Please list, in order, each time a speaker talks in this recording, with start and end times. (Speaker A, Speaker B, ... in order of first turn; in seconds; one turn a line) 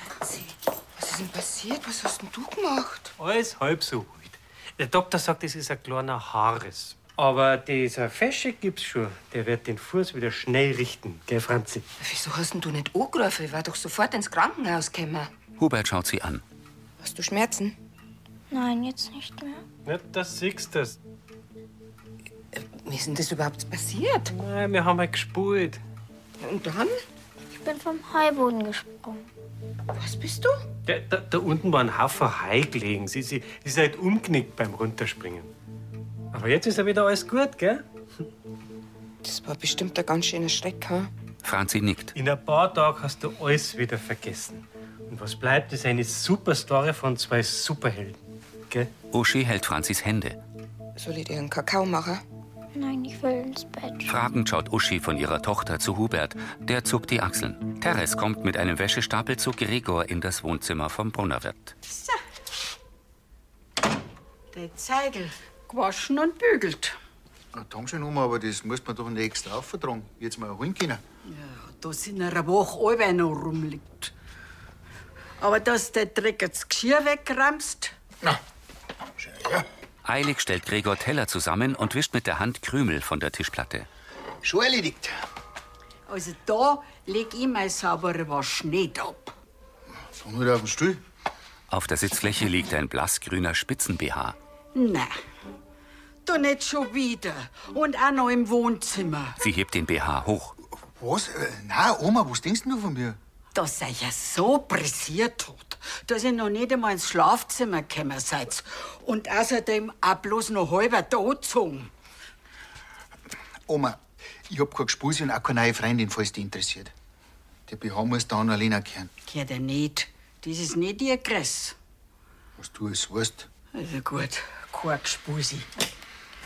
Speaker A: 0.2-3.1
Speaker B: 3.2-11.9
Speaker A: 12.0-15.3
Speaker C: 15.6-16.4
Speaker A: 17.0-17.8
Speaker D: 18.5-19.6
Speaker B: 19.9-21.0
Speaker A: 22.6-24.3
Speaker B: 24.3-25.8
Speaker A: 26.4-27.0
Speaker D: 27.5-29.2
Speaker A: 29.9-30.6
Speaker B: 30.9-35.5
Speaker B: 36.3-37.8
Speaker A: 39.2-41.1
Speaker C: 41.4-42.1
Speaker B: 42.1-48.9
Speaker C: 49.1-50.4
Speaker A: 51.0-52.2
Speaker D: 52.7-54.1
Speaker C: 54.1-61.8
Speaker E: 64.5-67.0
Speaker F: 67.5-71.0
Speaker E: 71.2-74.1
Speaker E: 75.4-78.0
Speaker F: 79.2-79.7
Speaker C: 80.0-83.9
Speaker F: 84.4-85.2
Speaker E: 86.1-89.3
Speaker F: 90.1-91.0
Speaker C: 91.7-94.4
Speaker E: 94.7-95.2
Speaker E: 96.2-99.4
Speaker C: 99.4-100.5
Speaker F: 100.8-103.2
Speaker E: 103.5-111.9
Speaker F: 113.7-116.9
Speaker F: 117.7-119.1
Speaker E: 119.3-121.8
Speaker F: 122.6-123.5
Speaker E: 123.7-125.7